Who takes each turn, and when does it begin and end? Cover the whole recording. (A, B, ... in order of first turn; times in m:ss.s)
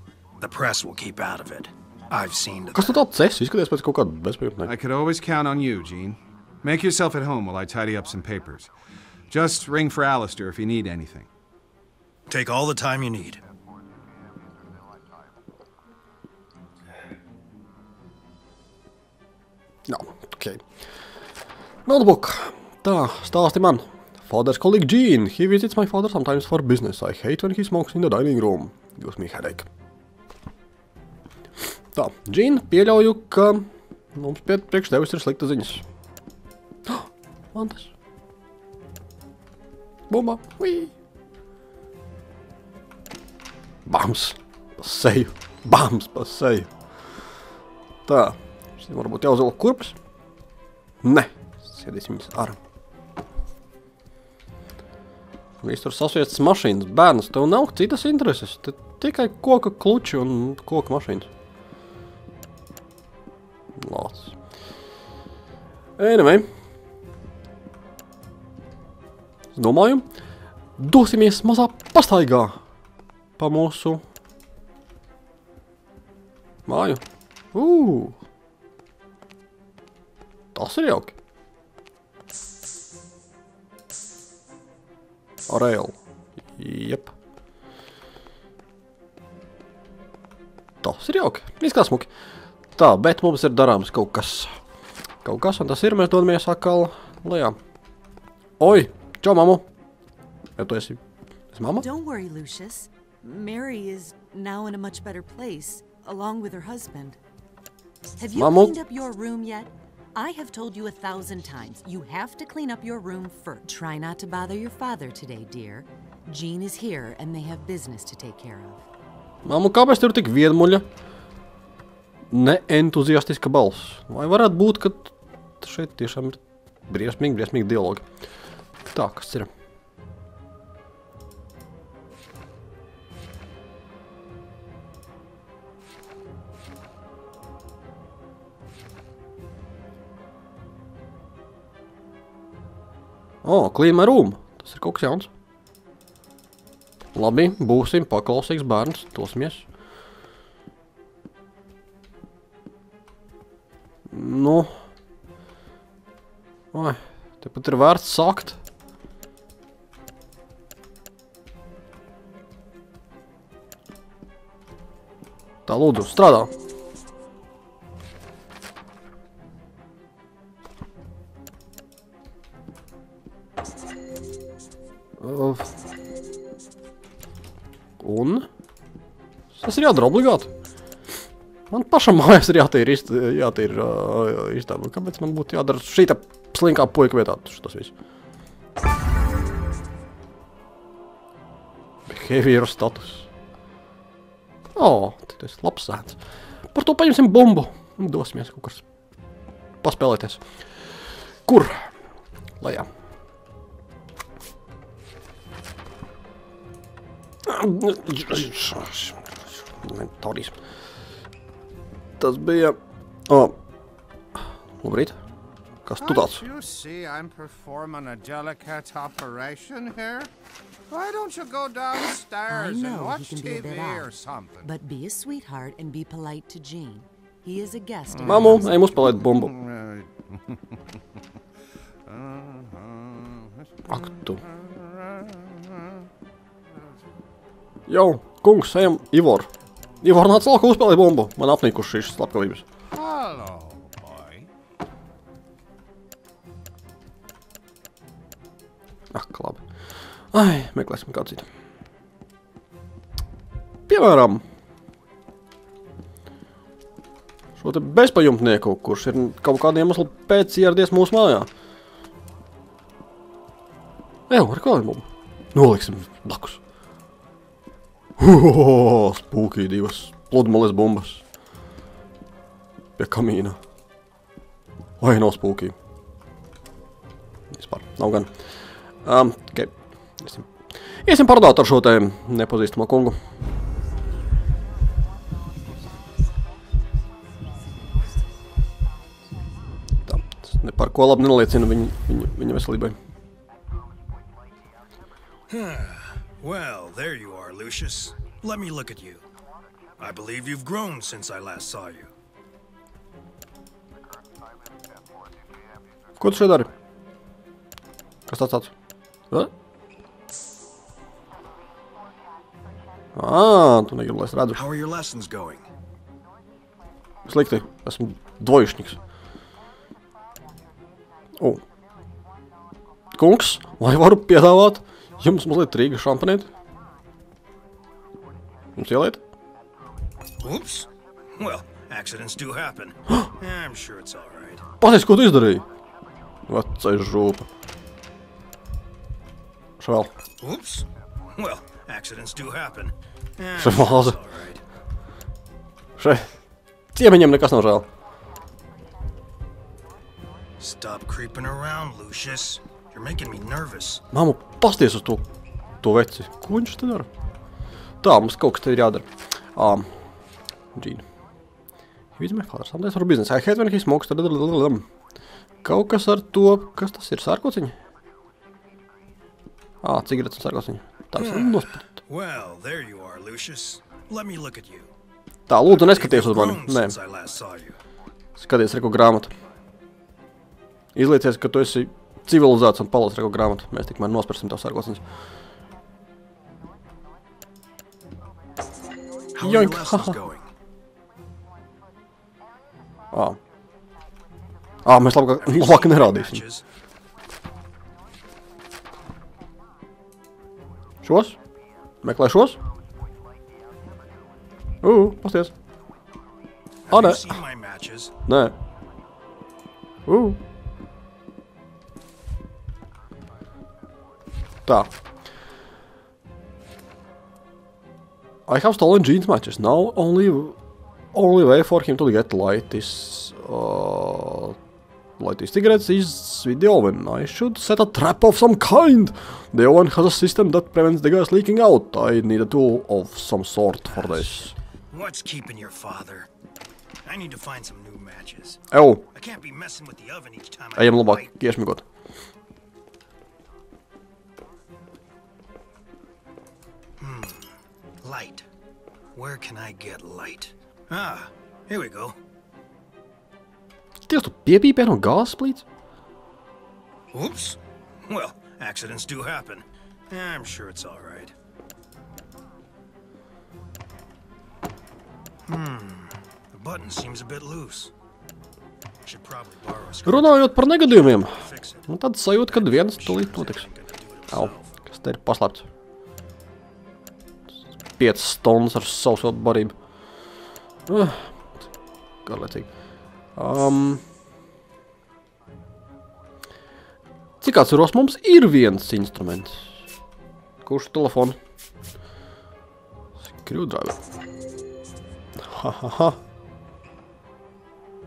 0:00.4-0:03.0 A
0:02.7-0:04.7 B
0:04.6-0:08.7 C
0:09.3-0:11.3 C
0:12.3-0:13.4 A
0:19.9-0:20.6 B
0:21.8-0:29.7 B
0:31.9-0:35.8 B
0:36.8-0:37.9 B
0:40.1-0:40.9 B
0:43.8-0:46.7 B
0:48.1-0:49.9 B
0:51.0-0:52.6 B
0:55.6-1:01.3 B
1:03.8-1:04.3 B
1:06.0-1:06.5 B
1:09.6-1:10.0 B
1:10.8-1:12.6 B
1:13.4-1:14.0 B
1:16.7-1:17.0 B
1:17.5-1:18.2 B
1:20.5-1:21.1 B
1:25.5-1:26.0 B
1:26.6-1:27.1 B
1:30.8-1:32.1 B
1:32.8-1:34.5 B
1:35.2-1:37.6 B
1:38.6-1:39.6 B
1:40.6-1:41.0 B
1:41.5-1:41.8 B
1:41.8-1:47.2 D
1:48.2-1:58.8 D
1:48.4-1:48.7 B
1:59.4-2:00.8 B
2:02.3-2:08.0 B
2:08.9-2:09.5 B
2:23.4-2:25.3 B
2:27.1-2:29.6 B
2:34.1-2:34.7 B
2:36.7-2:38.6 B
2:45.7-2:46.5 B
2:55.2-2:55.7 B
2:58.0-2:58.5 B
2:59.5-3:00.5 B
3:01.7-3:07.9 B
3:12.1-3:13.3 B
3:14.8-3:16.2 B
3:16.7-3:18.8 B
3:19.8-3:20.4 B
3:21.4-3:21.9 B
3:22.6-3:22.9 B
3:27.4-3:29.3 B
3:29.8-3:30.5 B
3:32.2-3:32.8 B
3:33.3-3:33.5 B
3:34.8-3:35.1 B
3:35.8-3:36.4 B
3:36.0-3:40.3 E
3:40.9-3:44.7 E
3:42.5-3:44.1 D
3:44.6-3:48.7 D
3:48.1-3:50.6 E
3:48.2-3:49.5 B
3:52.1-3:53.4 E
3:53.9-3:54.4 B
3:54.2-3:55.4 E
3:57.9-3:59.5 B
4:00.0-4:02.6 B
4:02.9-4:04.5 E
4:09.1-4:09.6 B
4:10.3-4:11.5 B
4:13.9-4:14.4 B
4:17.6-4:21.5 B
4:24.3-4:26.6 B
4:28.2-4:31.2 B
4:33.0-4:33.6 B
4:35.0-4:35.7 B
4:37.5-4:38.3 B
4:39.0-4:40.5 B
4:41.0-4:43.2 B
4:50.1-4:53.0 B
4:55.5-4:59.2 A
5:00.0-5:02.1 A
5:06.2-5:06.7 B
5:08.3-5:08.7 B
5:13.1-5:14.6 B
5:14.5-5:15.6 A
5:17.2-5:19.0 B
5:23.1-5:26.5 B
5:28.8-5:29.2 B
5:30.4-5:34.6 A
5:34.8-5:35.6 B
5:36.5-5:37.4 B
5:39.8-5:40.1 B
5:40.4-5:44.6 A
5:43.6-5:44.2 B
5:46.0-5:46.3 B
5:46.9-5:47.9 B
5:50.6-5:54.0 A
5:54.1-5:55.2 B
5:55.8-5:57.1 B
5:58.0-5:59.9 B
6:00.7-6:01.0 B
6:02.2-6:04.8 B
6:05.6-6:07.7 B
6:09.8-6:11.9 B
6:11.1-6:14.9 A
6:15.5-6:17.0 B
6:15.7-6:17.8 A
6:18.4-6:19.3 B
6:20.9-6:25.0 B
6:29.3-6:30.5 A
6:29.4-6:30.2 B
6:33.1-6:33.4 B
6:34.8-6:36.4 B
6:35.4-6:36.6 A
6:41.0-6:41.4 B
6:42.0-6:42.6 B
6:44.8-6:45.5 B
6:46.9-6:48.1 A
6:46.9-6:47.4 B
6:48.2-6:48.6 B
6:50.1-6:50.4 B
6:58.5-7:00.6 B
7:01.1-7:04.6 B
7:05.2-7:14.5 B
7:13.9-7:16.3 A
7:17.0-7:18.6 A
7:18.7-7:19.0 B
7:19.1-7:21.3 A
7:20.8-7:21.8 B
7:27.0-7:28.4 A
7:29.1-7:32.2 A
7:34.1-7:35.6 B
7:37.1-7:41.3 A
7:45.4-7:47.9 A
7:49.0-7:51.9 A
7:50.0-7:53.7 B
7:52.5-7:54.8 A
7:54.3-7:55.6 B
7:58.0-7:59.7 B
8:00.9-8:01.3 B
8:02.2-8:02.7 B
8:03.4-8:04.0 B
8:07.4-8:09.7 B
8:10.6-8:11.4 B
8:13.3-8:14.0 B
8:15.4-8:16.2 B